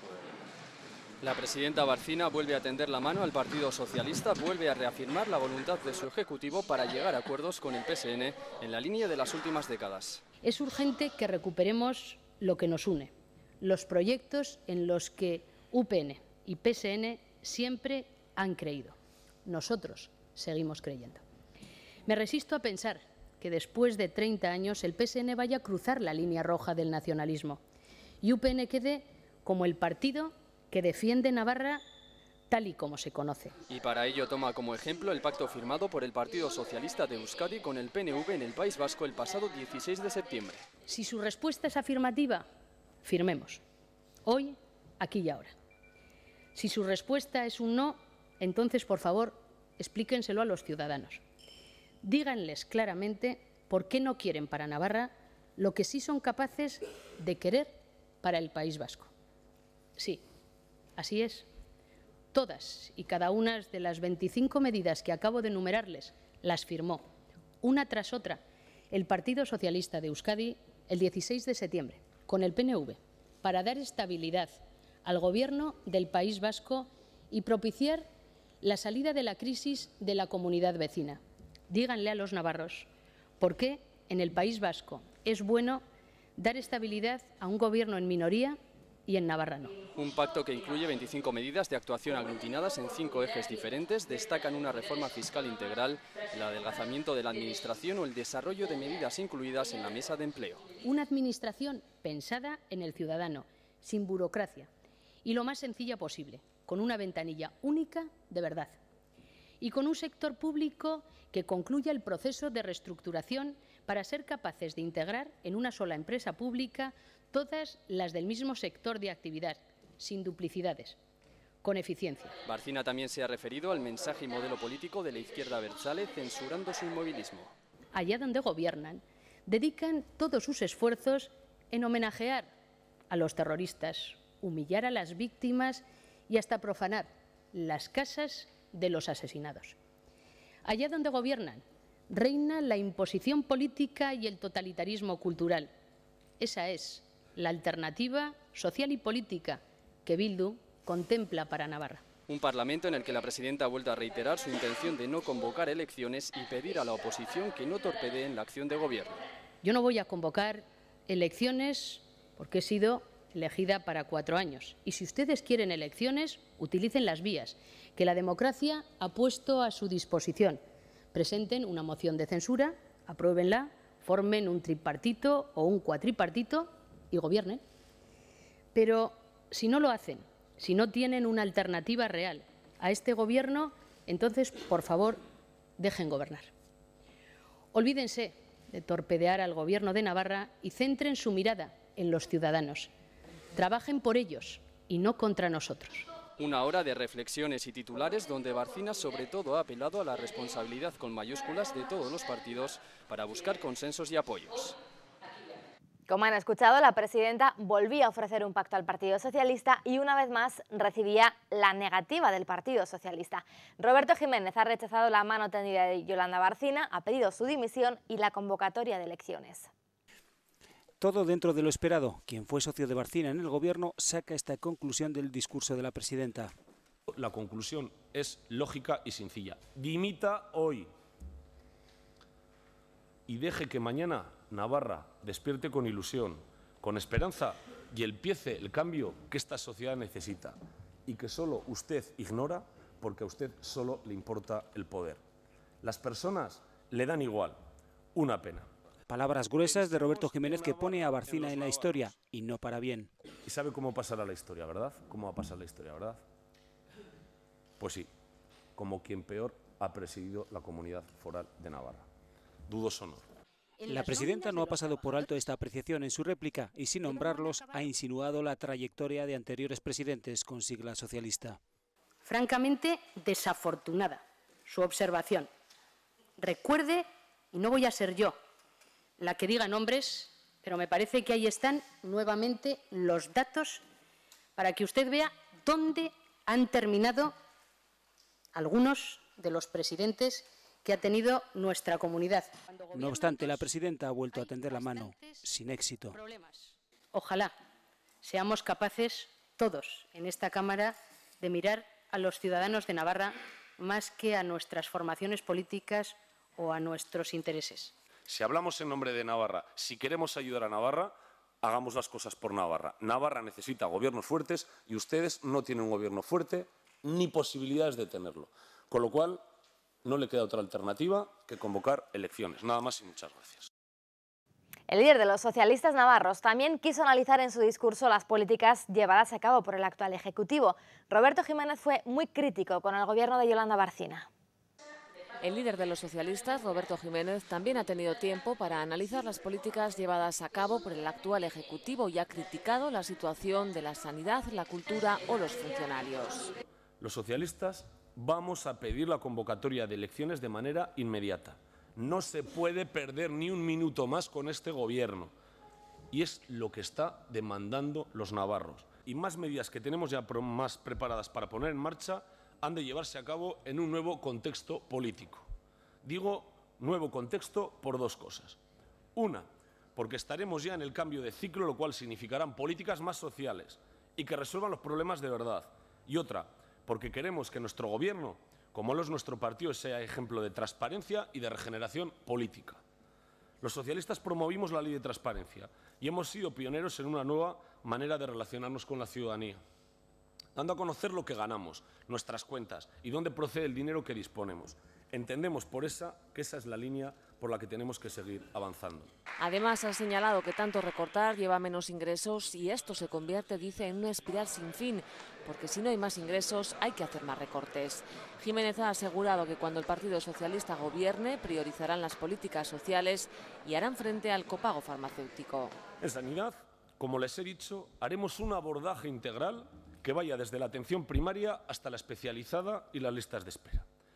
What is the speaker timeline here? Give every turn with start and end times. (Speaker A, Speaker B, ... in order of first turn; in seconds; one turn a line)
Speaker A: 1.2-10.2
Speaker B: 10.4-21.2
Speaker B: 22.1-27.6
Speaker B: 28.2-31.8
Speaker B: 32.5-33.5
Speaker A: 33.7-40.6
Speaker B: 40.9-42.5
Speaker B: 43.0-43.6
Speaker B: 44.2-45.5
Speaker B: 46.5-51.2
Speaker B: 52.0-59.1
Speaker B: 60.0-60.2
Speaker B: 61.0-61.5
Speaker B: 62.3-67.0
Speaker B: 67.6-78.0
Speaker B: 78.6-82.9
Speaker B: 83.4-85.8
Speaker B: 86.4-89.8
Speaker A: 89.9-100.7
Speaker B: 100.8-104.7
Speaker B: 105.2-108.8
Speaker B: 109.6-121.0
Speaker B: 121.6-122.3
Speaker A: 122.5-127.5
Speaker B: 127.9-132.5
Speaker B: 133.1-139.8
Speaker B: 140.6-145.7
Speaker B: 146.4-152.0
Speaker A: 152.3-159.2
Speaker B: 159.6-170.6
Speaker B: 171.1-177.6
Speaker B: 178.7-185.2
Speaker B: 185.8-186.5
Speaker B: 187.7-192.9
Speaker B: 193.5-196.1
Speaker A: 196.4-204.8
Speaker C: 206.1-219.7
Speaker D: 221.0-226.5
Speaker E: 227.1-230.9
Speaker E: 233.3-245.2
Speaker E: 245.8-247.6
Speaker E: 248.1-248.7
Speaker D: 249.1-253.1
Speaker E: 253.4-256.2
Speaker E: 257.8-258.1
Speaker E: 258.7-262.1
Speaker E: 262.7-263.3
Speaker B: 263.8-265.3
Speaker D: 263.8-271.6
Speaker B: 272.2-275.5
Speaker B: 276.4-278.4
Speaker B: 279.2-283.8
Speaker B: 284.6-287.3
Speaker B: 288.5-293.7
Speaker D: 292.9-296.2
Speaker B: 294.3-295.4
Speaker B: 296.1-297.5
Speaker B: 298.2-307.9
Speaker E: 308.3-319.4
Speaker E: 320.0-323.7
Speaker C: 324.9-334.3
Speaker F: 335.4-346.5
Speaker E: 347.0-355.3
Speaker E: 356.1-365.4
Speaker E: 366.0-368.6
Speaker E: 369.1-382.8
Speaker E: 383.6-389.6
Speaker E: 390.6-399.1
Speaker F: 399.4-415.8
Speaker E: 416.0-423.9